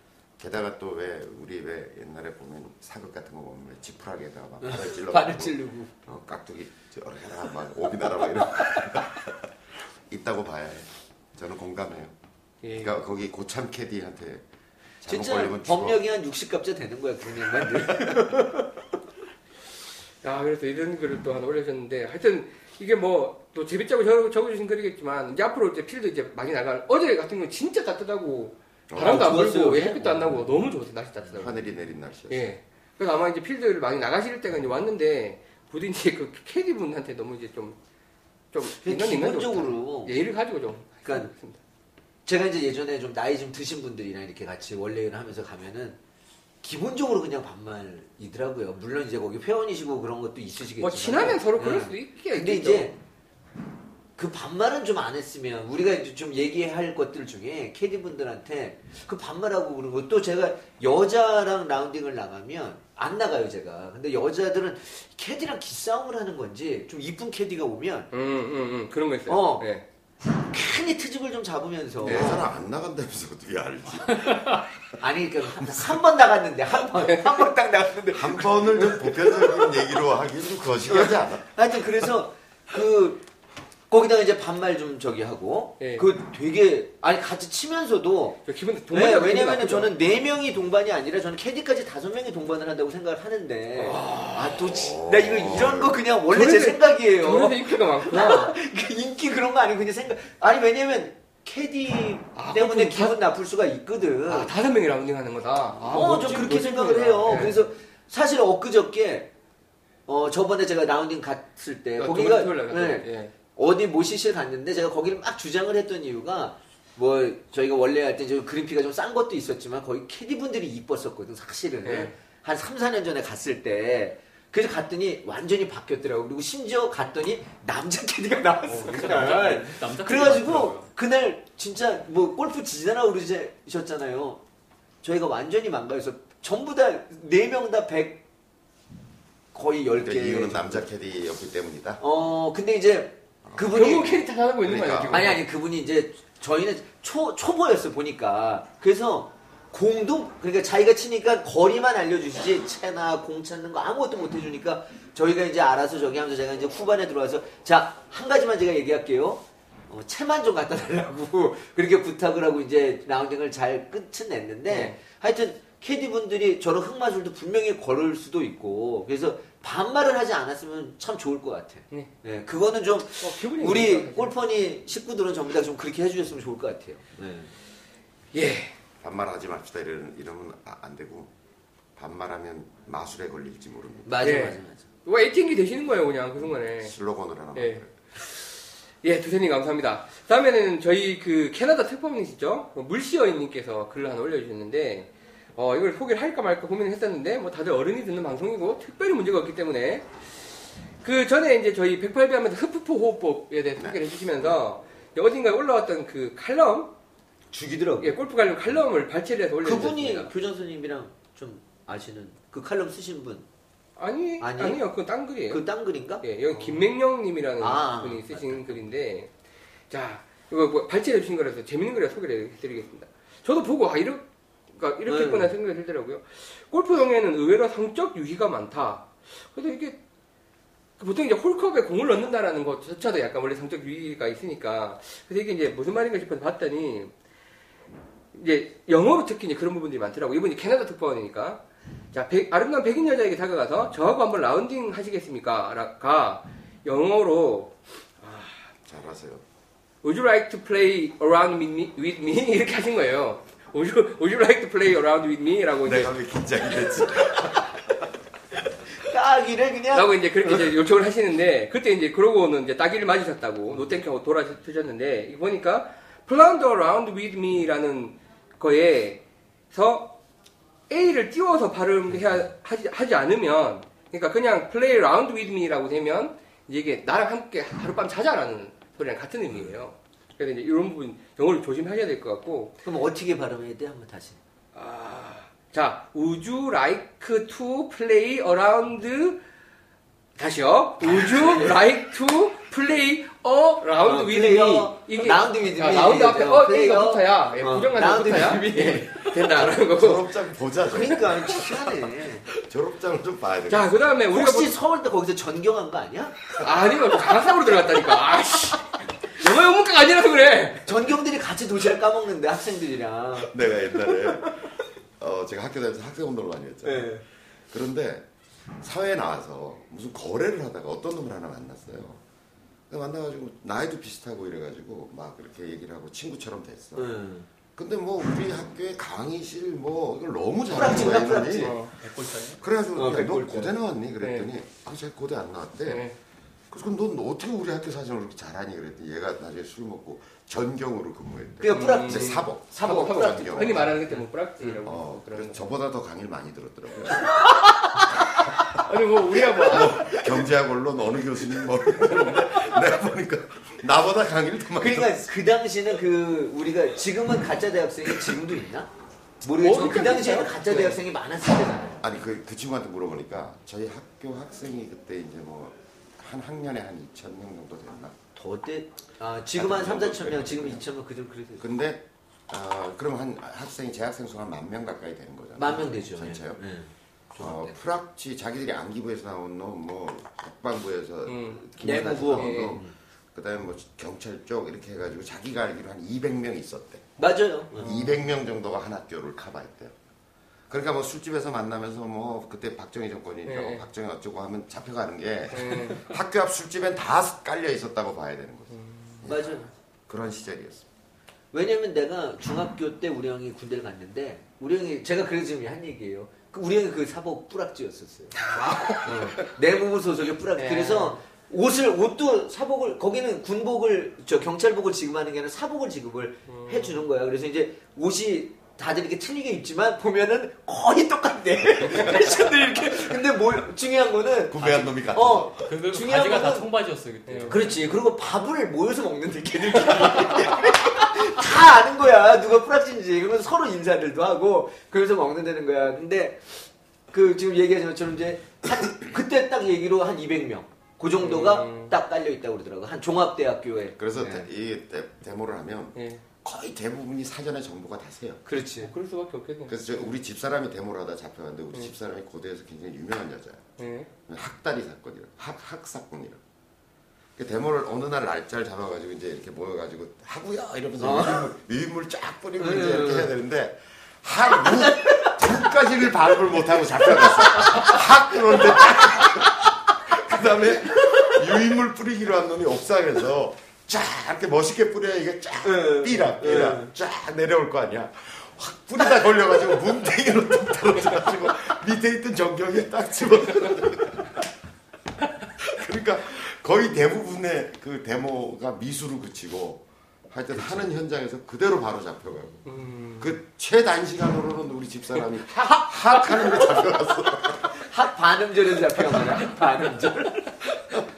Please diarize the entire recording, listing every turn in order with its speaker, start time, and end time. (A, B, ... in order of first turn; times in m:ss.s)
0:00.4-0:09.4 A
0:04.6-0:05.9 B
0:10.1-0:12.1 A
0:12.6-0:13.0 C
0:12.8-0:14.4 A
0:15.0-0:16.0 A
0:15.1-0:18.7 B
0:17.9-0:18.2 A
0:20.2-0:31.6 C
0:28.9-0:29.3 A
0:29.0-0:30.5 B
0:31.3-0:32.6 A
0:32.3-0:37.8 C
0:38.5-0:41.6 C
0:38.7-0:40.2 B
0:41.0-0:41.3 B
0:42.3-0:46.0 B
0:46.6-0:53.0 B
0:50.8-0:52.9 C
0:54.2-1:08.1 B
1:08.1-1:09.8 C
1:09.3-1:09.7 B
1:10.4-1:12.4 B
1:12.0-1:12.4 C
1:12.0-1:14.8 A
1:15.0-1:19.9 B
1:17.0-1:17.5 C
1:18.1-1:21.5 A
1:20.9-1:23.2 B
1:23.9-1:44.5 B
1:25.8-1:26.1 C
1:28.5-1:29.9 C
1:33.8-1:34.7 C
1:34.6-1:36.0 A
1:36.3-1:38.5 C
1:42.4-1:43.2 C
1:44.3-1:47.6 C
1:45.8-1:49.3 B
1:50.1-2:14.4 B
1:52.0-1:53.3 C
2:01.8-2:02.1 C
2:08.7-2:10.9 D
2:15.0-2:18.2 B
2:19.5-2:20.8 B
2:20.0-2:22.0 A
2:22.0-2:24.2 B
2:23.5-2:23.8 A
2:23.6-2:25.4 C
2:24.6-2:25.4 A
2:25.1-2:57.5 B
2:44.7-2:45.0 C
2:53.2-2:54.4 C
2:58.3-2:58.7 C
2:59.0-3:01.3 A
3:02.0-3:04.4 A
3:04.0-3:04.8 B
3:04.2-3:06.9 C
3:06.8-3:08.0 A
3:07.6-3:07.8 C
3:09.0-3:20.1 C
3:21.0-3:26.9 C
3:27.5-3:28.2 B
3:28.0-3:30.3 C
3:29.6-3:33.5 B
3:34.0-3:35.6 C
3:34.4-3:34.8 B
3:35.5-3:36.9 B
3:36.2-3:39.3 C
3:37.6-3:38.8 B
3:39.9-3:50.0 C
3:45.1-3:45.5 B
3:51.0-3:57.1 C
3:58.3-4:01.6 C
4:02.1-4:08.6 C
4:08.8-4:09.4 A
4:10.0-4:16.1 C
4:15.8-4:18.1 A
4:19.0-4:20.7 B
4:19.9-4:29.2 C
4:29.7-4:30.2 C
4:30.9-4:42.8 C
4:42.8-4:44.4 B
4:44.7-4:49.4 C
4:50.4-5:00.3 C
4:51.0-4:51.8 B
4:54.0-4:59.6 B
4:59.6-5:01.6 A
5:00.8-5:02.5 B
5:02.5-5:04.1 A
5:03.7-5:04.8 C
5:04.3-5:06.6 B
5:06.6-5:10.9 C
5:10.9-5:14.7 B
5:13.4-5:17.1 A
5:16.8-5:17.2 B
5:17.7-5:18.3 A
5:18.8-5:22.2 A
5:22.9-5:27.1 A
5:27.0-5:27.5 B
5:27.8-5:31.8 A
5:30.7-5:31.8 B
5:31.5-5:31.9 C
5:32.0-5:32.6 D
5:32.6-5:36.0 A
5:33.0-5:33.7 B
5:34.2-5:34.5 C
5:35.9-5:36.1 C
5:36.7-5:44.0 A
5:41.6-5:44.8 B
5:41.7-5:45.6 C
5:44.8-5:47.4 A
5:47.4-5:48.1 B
5:48.7-5:50.0 C
5:49.3-5:50.4 B
5:49.5-5:55.2 A
5:52.0-5:52.4 C
5:54.8-5:58.9 B
5:59.4-6:02.0 B
5:59.5-6:01.0 C
6:02.0-6:08.2 A
6:08.4-6:11.6 B
6:09.5-6:10.8 A
6:11.6-6:16.6 A
6:15.6-6:17.8 B
6:17.4-6:27.1 A
6:21.3-6:21.6 C
6:21.8-6:22.9 B
6:22.3-6:22.8 C
6:27.2-6:28.0 B
6:27.7-6:30.0 A
6:30.7-6:39.5 A
6:33.5-6:33.9 C
6:35.5-6:36.1 C
6:38.7-6:39.2 C
6:39.2-6:39.7 B
6:40.1-6:40.9 A
6:41.5-6:48.4 B
6:48.4-6:49.5 C
6:49.0-7:06.7 B
6:50.6-6:51.2 C
6:56.5-6:57.0 C
7:01.9-7:02.2 A
7:04.5-7:05.7 A
7:05.6-7:07.9 D
7:07.3-7:07.7 C
7:07.5-7:16.6 B
7:17.1-7:24.5 B
7:21.2-7:21.9 C
7:24.0-7:28.4 A
7:26.0-7:26.2 C
7:28.5-7:28.9 B
7:28.8-7:29.8 C
7:29.7-7:33.7 A
7:33.8-7:34.1 C
7:34.3-7:36.4 A
7:37.4-8:04.4 A
7:41.0-7:41.5 B
7:42.6-7:43.3 B
7:44.5-7:45.7 B
7:47.0-7:49.4 B
7:55.6-7:56.9 B
8:05.6-8:12.6 A
8:12.7-8:13.3 C
8:13.2-8:17.9 A
8:17.7-8:20.6 B